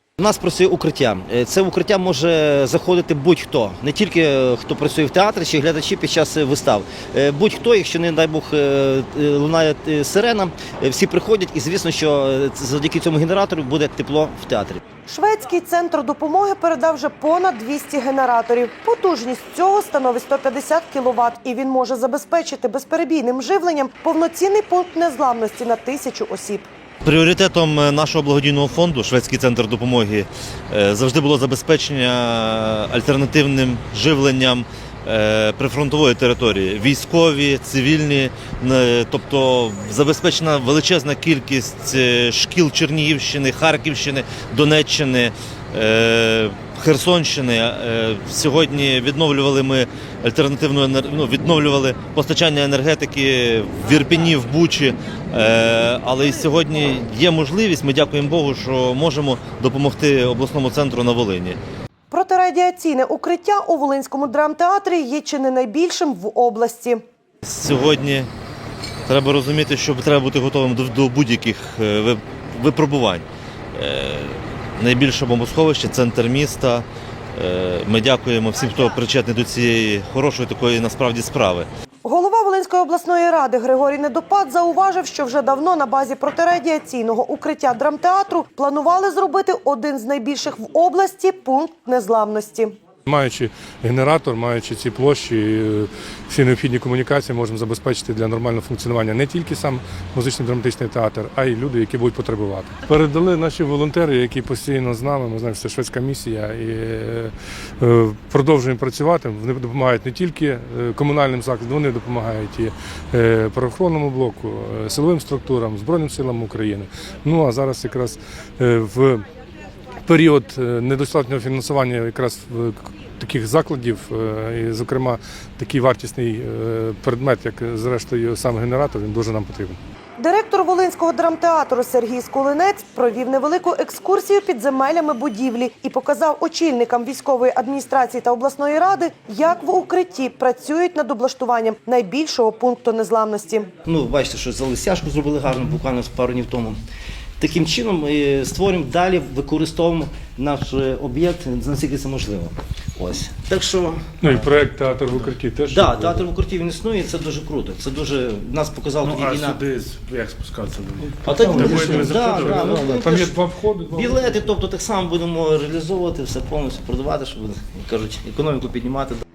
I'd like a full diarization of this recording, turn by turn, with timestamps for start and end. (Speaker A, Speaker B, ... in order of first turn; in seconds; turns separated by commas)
Speaker A: 0.2-14.8, Speaker B: 15.1-26.7, Speaker C: 27.0-61.6, Speaker B: 62.1-67.0, Speaker C: 67.4-68.3, Speaker C: 69.1-81.7, Speaker B: 82.0-92.7, Speaker D: 93.0-119.2, Speaker D: 120.0-129.8, Speaker B: 130.2-143.7, Speaker A: 143.8-146.8, Speaker A: 147.4-154.2, Speaker D: 154.2-156.2, Speaker E: 154.3-155.3, Speaker A: 155.7-159.6, Speaker E: 159.0-162.9, Speaker A: 161.2-169.2, Speaker D: 161.3-164.4